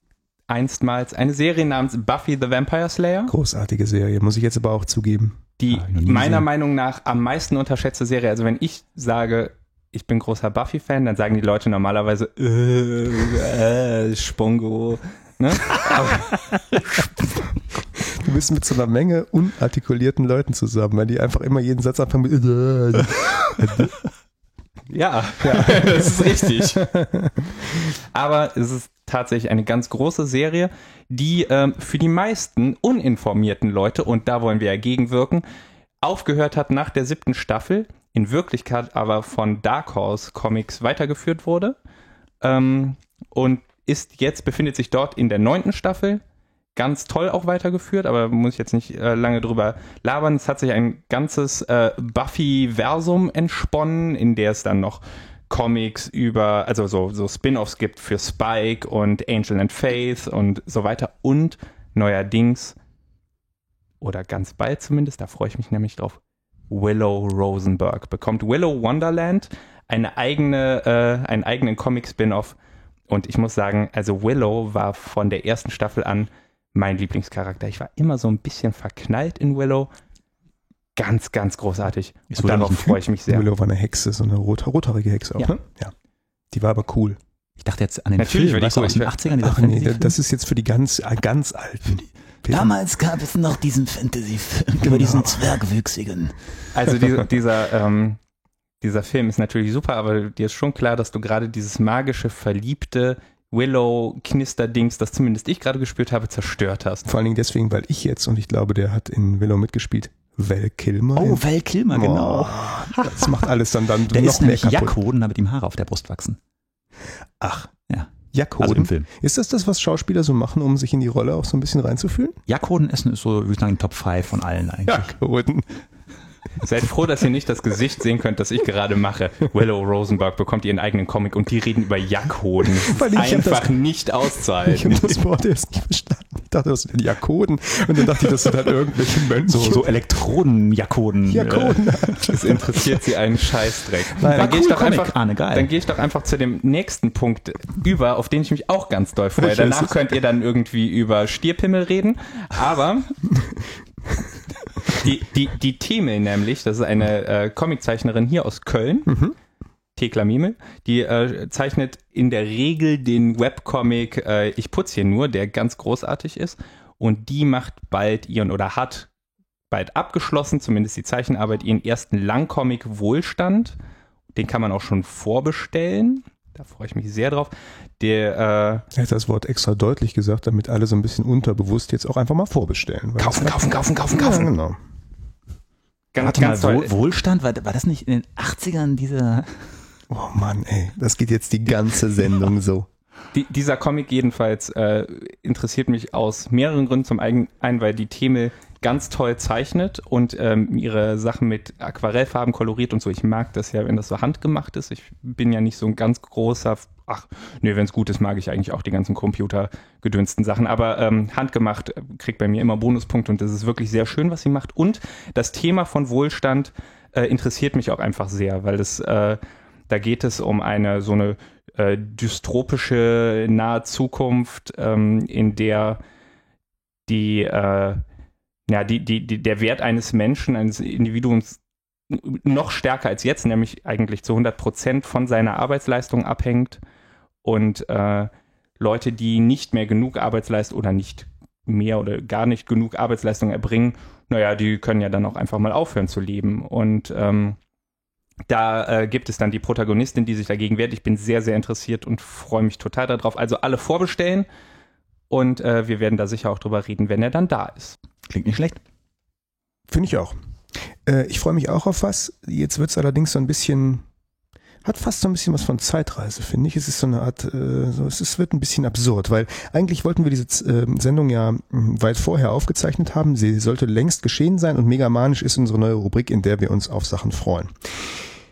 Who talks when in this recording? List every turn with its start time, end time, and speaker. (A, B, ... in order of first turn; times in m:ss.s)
0:00.5-0:03.3 A
0:03.3-0:05.4 B
0:05.6-0:17.1 A
0:05.7-0:06.5 C
0:18.1-0:23.9 B
0:24.9-0:26.9 A
0:25.4-0:27.5 B
0:27.8-0:35.4 A
0:36.0-0:41.8 A
0:42.4-0:46.2 A
0:46.8-1:02.8 A
1:04.0-1:06.2 A
1:06.7-1:12.6 A
1:13.1-1:19.9 A
1:21.0-1:23.5 A
1:22.3-1:23.0 C
1:23.3-1:25.9 B
1:26.5-1:27.2 B
1:27.6-1:30.2 C
1:28.2-1:29.2 A
1:29.4-1:32.7 B
1:32.5-1:36.4 C
1:34.8-1:35.4 B
1:36.7-1:38.2 A
1:38.8-1:47.1 A
1:47.0-1:55.0 B
1:51.2-1:53.5 C
1:54.1-1:56.4 C
1:57.4-1:57.7 B
1:57.9-1:59.1 C
1:58.3-2:02.4 B
2:02.5-2:05.1 C
2:04.9-2:05.7 B
2:06.6-2:15.2 A
2:12.8-2:13.8 B
2:14.7-2:19.9 B
2:19.4-2:22.6 C
2:21.3-2:22.6 B
2:22.2-2:33.1 A
2:24.2-2:25.7 C
2:24.2-2:24.6 B
2:29.4-2:29.9 B
2:34.9-2:39.2 A
2:39.1-2:39.4 B
2:40.0-2:49.1 A
2:49.7-2:53.8 A
2:54.4-2:58.8 A
2:58.9-3:04.8 B
3:03.2-3:04.5 C
3:03.4-3:04.4 A
3:06.1-3:06.9 A
3:06.2-3:09.7 C
3:10.1-3:12.9 B
3:13.3-3:46.0 A
3:47.1-3:48.0 A
3:48.7-3:56.8 A
3:57.4-4:07.6 A
4:08.5-4:14.5 A
4:15.3-4:18.0 A
4:18.3-4:18.8 C
4:19.9-4:20.3 B
4:21.1-4:24.0 B
4:24.8-4:38.2 B